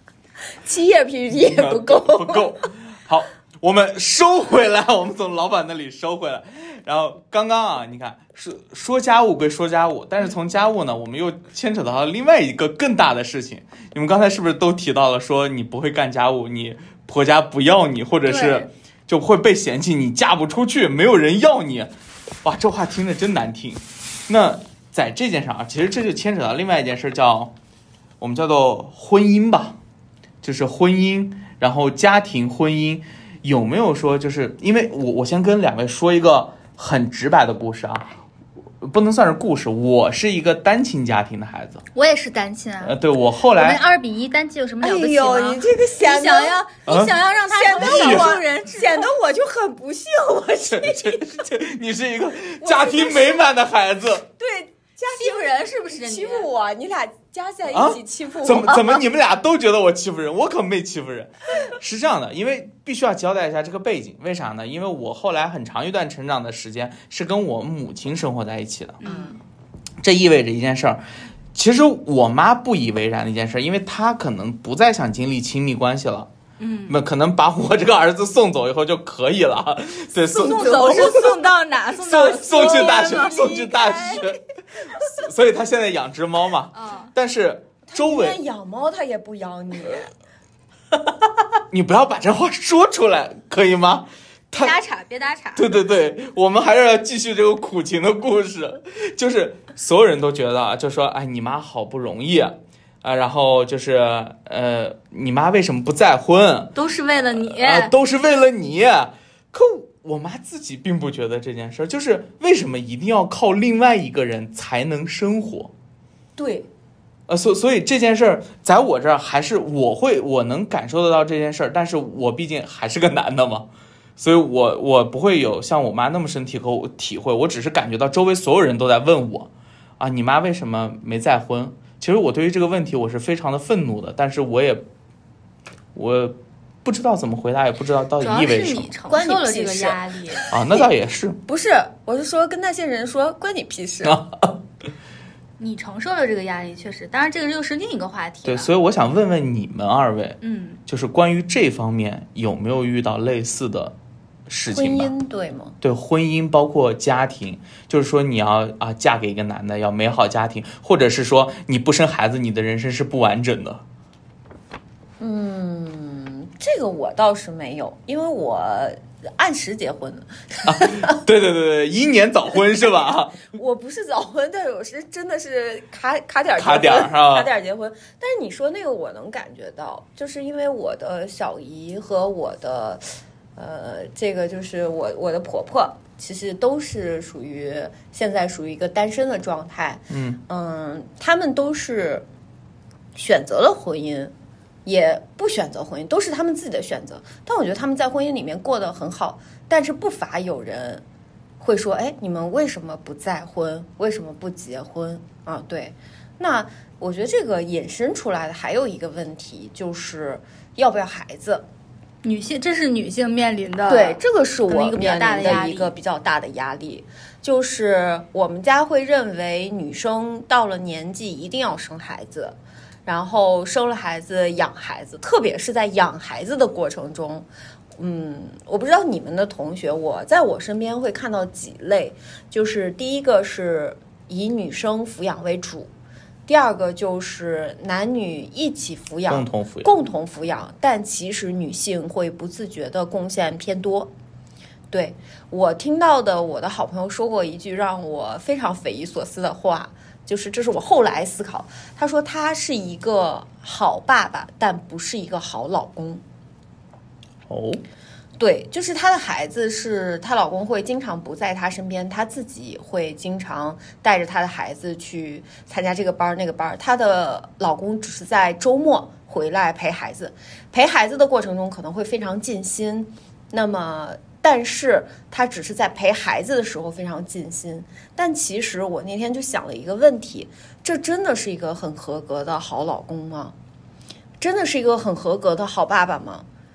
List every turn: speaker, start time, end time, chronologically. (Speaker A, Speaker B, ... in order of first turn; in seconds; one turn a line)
Speaker A: 0.6-2.5
Speaker B: 1.3-21.9
Speaker C: 18.3-18.7
Speaker B: 22.4-27.5
Speaker B: 28.2-29.8
Speaker B: 30.4-38.1
Speaker B: 38.8-41.8
Speaker C: 42.0-43.0
Speaker B: 42.8-43.8
Speaker C: 43.5-49.1
Speaker A: 44.8-46.6
Speaker B: 46.9-47.1
Speaker A: 47.5-51.2
Speaker B: 47.8-48.3
Speaker B: 50.7-54.3
Speaker A: 52.6-53.4
Speaker A: 54.4-59.0
Speaker C: 55.2-56.5
Speaker B: 57.7-69.0
Speaker C: 69.0-69.4
Speaker A: 69.0-69.4
Speaker B: 70.0-71.0
Speaker B: 71.5-76.3
Speaker C: 76.6-77.0
Speaker B: 76.9-81.4
Speaker C: 80.3-84.2
Speaker B: 82.0-84.4
Speaker A: 82.6-83.7
Speaker B: 85.0-88.4
Speaker C: 86.7-87.1
Speaker A: 87.9-90.1
Speaker B: 91.7-94.8
Speaker C: 94.5-95.7
Speaker B: 95.6-115.7
Speaker C: 106.8-107.9
Speaker A: 116.4-116.7
Speaker B: 117.3-134.8
Speaker B: 135.9-138.9
Speaker C: 138.2-140.4
Speaker A: 139.1-140.9
Speaker B: 140.5-141.4
Speaker A: 141.4-144.2
Speaker B: 144.0-144.6
Speaker C: 145.6-148.7
Speaker B: 148.4-154.0
Speaker C: 150.4-150.8
Speaker B: 154.5-155.1
Speaker A: 154.7-155.8
Speaker B: 155.8-163.8
Speaker A: 165.2-171.2
Speaker B: 170.7-173.4
Speaker A: 173.5-183.1
Speaker B: 176.6-177.5
Speaker A: 183.6-192.2
Speaker B: 190.1-190.4
Speaker A: 193.2-194.3
Speaker A: 194.9-201.0
Speaker A: 201.6-211.7
Speaker C: 212.2-215.9
Speaker A: 213.9-235.9
Speaker A: 236.5-244.1
Speaker B: 239.3-239.9
Speaker A: 244.9-256.2
Speaker B: 257.5-257.8
Speaker A: 258.4-283.6
Speaker A: 284.4-286.5